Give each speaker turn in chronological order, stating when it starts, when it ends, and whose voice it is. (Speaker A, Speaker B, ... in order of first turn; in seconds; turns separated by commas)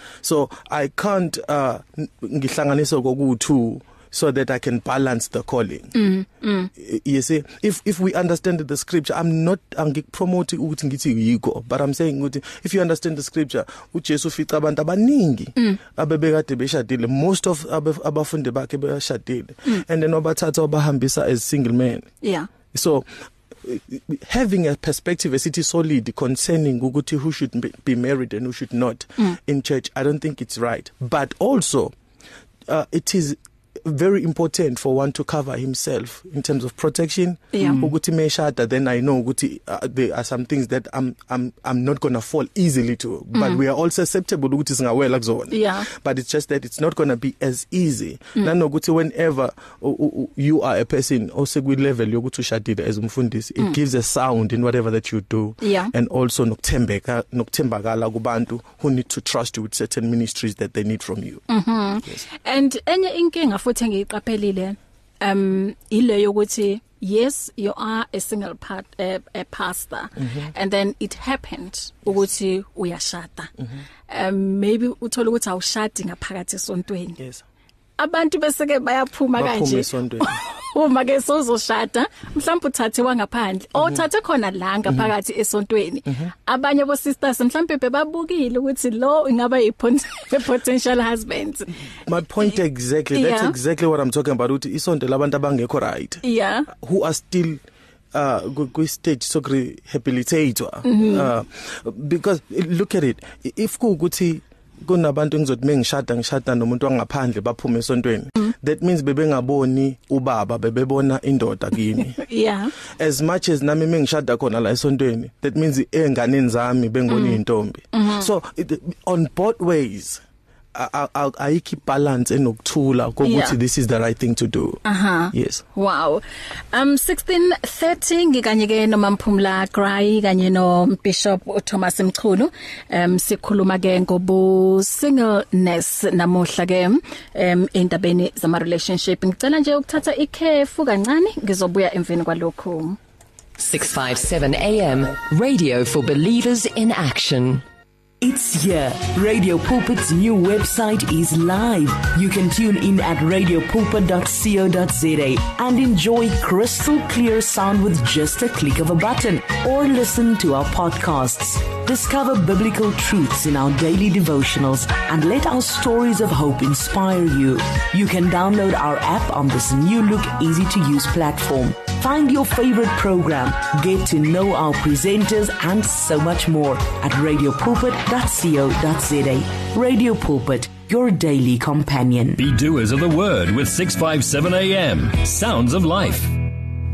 Speaker A: 0.2-6.0, Speaker B: 5.9-6.7, Speaker A: 6.8-22.1, Speaker B: 22.2-22.5, Speaker A: 22.7-23.1, Speaker A: 23.6-31.9, Speaker A: 32.7-61.4, Speaker B: 37.5-37.8, Speaker B: 43.3-43.6, Speaker B: 45.5-45.9, Speaker B: 55.6-55.9, Speaker B: 61.5-73.5, Speaker A: 70.2-70.5, Speaker B: 74.1-77.2, Speaker A: 77.2-77.4, Speaker B: 78.0-91.7, Speaker A: 79.3-80.4, Speaker A: 92.0-97.6, Speaker B: 93.1-93.5, Speaker B: 96.2-96.7, Speaker A: 98.1-112.2, Speaker B: 100.8-101.3, Speaker B: 112.2-112.7, Speaker A: 113.0-120.2, Speaker B: 117.1-117.4, Speaker B: 117.9-118.3, Speaker A: 120.7-124.8, Speaker B: 123.2-123.5, Speaker B: 124.8-143.0, Speaker A: 125.3-125.6, Speaker C: 143.6-147.6, Speaker D: 148.2-182.4, Speaker E: 182.4-186.3